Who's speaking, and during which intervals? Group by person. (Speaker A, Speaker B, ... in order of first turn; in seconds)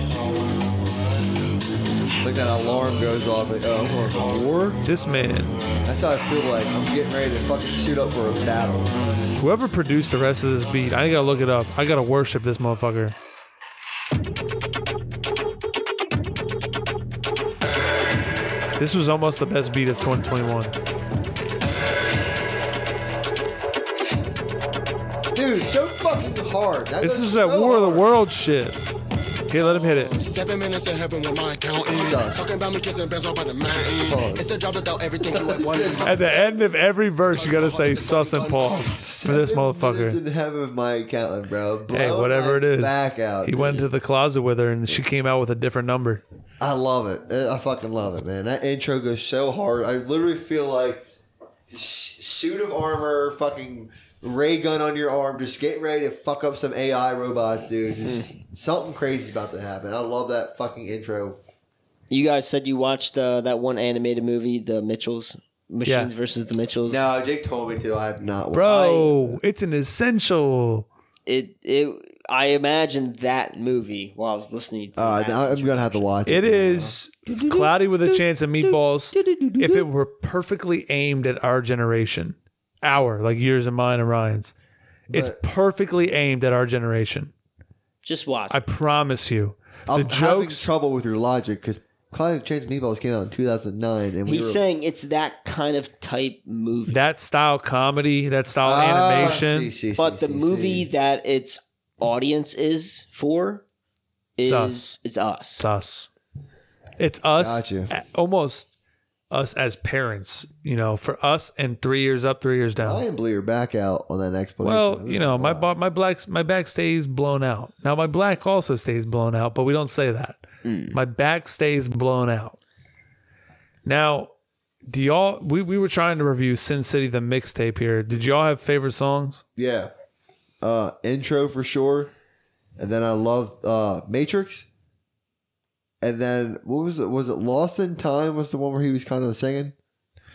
Speaker A: 2.2-4.8, 5.8-9.0, 25.3-28.1, 31.9-32.5, 34.0-34.5, 35.3-36.2, 38.9-43.9, 46.6-51.1, 51.7-61.4, 66.9-69.4, 75.0-77.0, 85.1-85.4, 89.9-94.6, 98.6-100.9, 107.4-107.9, 112.8-115.7, 129.6-129.9, 130.6-132.1, 132.8-134.7, 136.0-139.7
Speaker B: 4.8-5.5, 9.4-13.1, 18.8-20.7, 27.0-28.8, 29.5-30.2, 36.0-40.2, 41.9-46.2, 68.5-70.9, 76.3-84.5, 85.1-87.3, 88.5-90.7, 96.9-99.7, 104.5-104.9, 105.6-106.1, 107.0-108.7, 109.3-113.0, 114.6-122.6, 123.8-124.3, 124.9-129.4
Speaker C: 30.1-36.3, 37.3-38.9
Speaker D: 58.0-58.3, 62.1-67.0, 68.7-69.1, 71.3-76.1, 88.0-88.6, 94.2-97.0, 100.0-103.6, 104.4-105.7, 120.6-121.0